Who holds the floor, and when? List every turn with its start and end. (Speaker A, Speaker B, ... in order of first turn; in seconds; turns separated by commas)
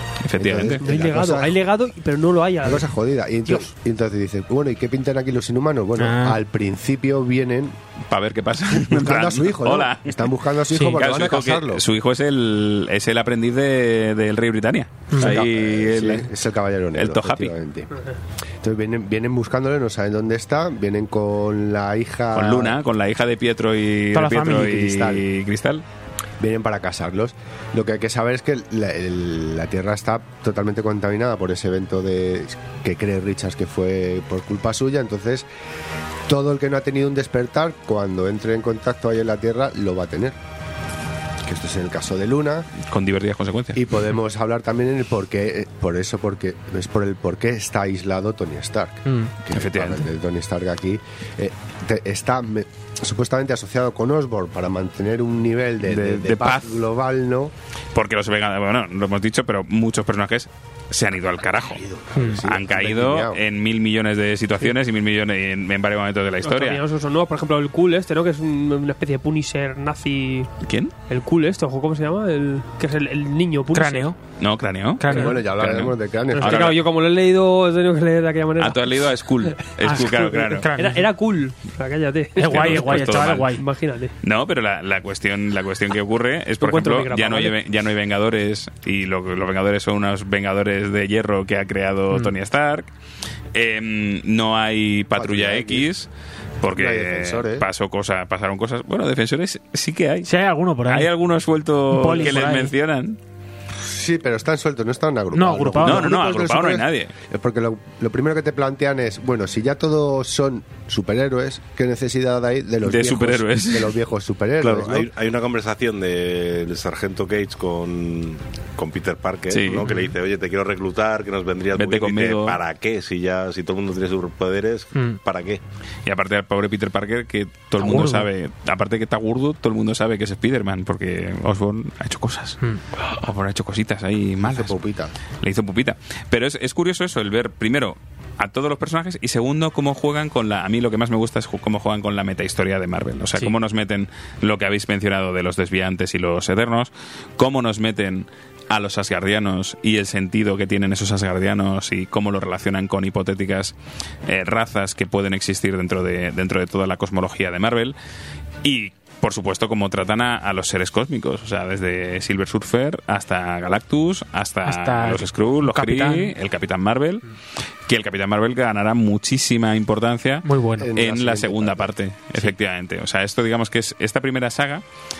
Speaker A: 0.2-0.8, Speaker B: 0.4-1.6, Speaker C: 0.8-2.9, Speaker B: 2.6-7.8, Speaker D: 6.0-6.4, Speaker A: 8.1-10.3, Speaker B: 8.7-11.8, Speaker A: 10.9-16.3, Speaker B: 15.2-17.9, Speaker A: 16.9-17.5, Speaker B: 18.6-22.8, Speaker A: 22.3-25.8, Speaker D: 24.1-24.8, Speaker B: 24.7-25.2, Speaker B: 26.4-35.5, Speaker B: 36.3-40.4, Speaker B: 41.5-42.7, Speaker A: 42.9-43.8, Speaker B: 43.7-57.5, Speaker D: 49.0-49.3, Speaker A: 49.5-50.1, Speaker A: 55.8-56.8, Speaker A: 57.9-61.8, Speaker B: 62.1-63.4, Speaker D: 62.1-62.4, Speaker A: 62.4-66.8, Speaker C: 66.4-70.5, Speaker A: 70.6-70.9, Speaker C: 71.1-74.1, Speaker D: 73.7-74.2, Speaker A: 74.4-76.8, Speaker D: 75.0-75.3, Speaker B: 75.1-76.7, Speaker C: 76.3-79.0, Speaker A: 78.6-80.7, Speaker C: 79.7-84.1, Speaker D: 79.8-81.1, Speaker D: 82.4-83.6, Speaker A: 82.5-83.5, Speaker A: 84.2-92.9, Speaker C: 86.6-87.5, Speaker A: 93.5-96.1, Speaker B: 95.1-95.9, Speaker A: 96.6-100.3, Speaker B: 96.7-97.7, Speaker D: 100.2-101.1, Speaker A: 100.9-103.2, Speaker D: 101.9-102.7, Speaker B: 103.8-115.1, Speaker D: 105.3-106.2, Speaker A: 105.8-107.1, Speaker A: 112.8-114.0, Speaker E: 114.6-125.6, Speaker A: 119.5-119.9, Speaker A: 121.8-122.6, Speaker A: 126.0-134.8, Speaker D: 127.8-128.2, Speaker B: 134.4-135.1, Speaker A: 135.4-153.7, Speaker A: 154.2-157.9, Speaker A: 158.6-167.2, Speaker D: 164.6-166.3, Speaker A: 167.9-174.8, Speaker D: 170.4-170.9, Speaker B: 170.8-171.9